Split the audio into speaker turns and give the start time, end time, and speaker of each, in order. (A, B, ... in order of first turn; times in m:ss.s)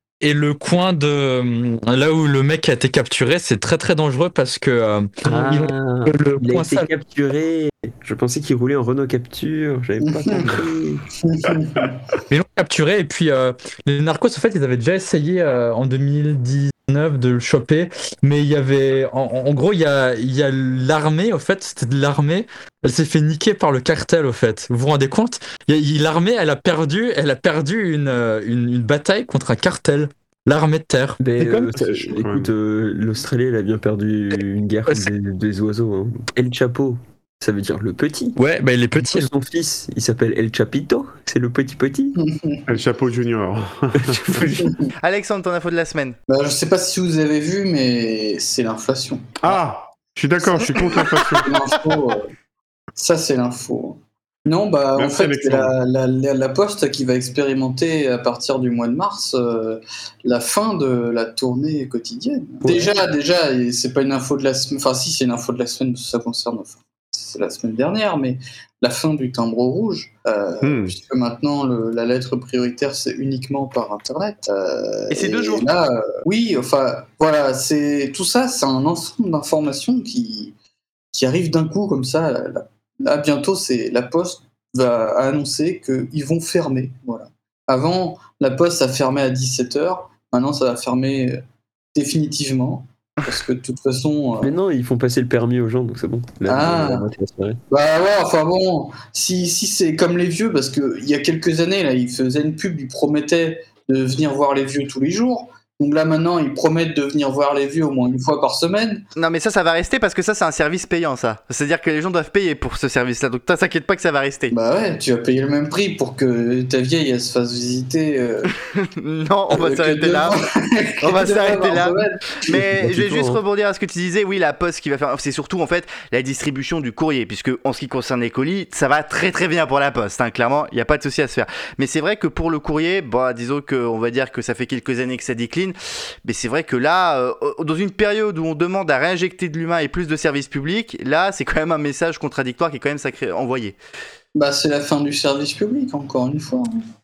0:00.2-0:06.9 A
0:05.2-0:11.0 B
0:10.0-0:10.5 C
0:11.2-0:11.9 C
0:12.3-0:31.8 A
0:31.2-0:38.4 B
0:32.1-0:32.5 D
0:38.4-0:39.3 A
0:39.0-0:42.2 B
0:42.2-0:42.6 C
0:42.7-0:44.5 D
0:44.0-0:44.7 B
0:45.0-0:46.2 E
0:46.3-0:49.2 C
0:49.4-0:51.5 D
0:50.4-0:50.7 C
0:51.4-0:52.3 C
0:53.0-1:20.5 C
0:55.0-0:55.7 D
1:02.6-1:03.0 B
1:10.6-1:11.0 D
1:15.1-1:15.7 E
1:21.1-1:31.4 C
1:31.9-1:34.5 C
1:34.4-1:37.6 B
1:36.5-1:37.0 C
1:37.7-1:49.0 C
1:49.2-1:54.5 E
1:54.5-1:58.5 C
1:58.7-2:00.4 E
1:59.5-2:02.2 C
2:01.0-2:23.8 E
2:02.5-2:03.4 B
2:24.3-2:26.8 C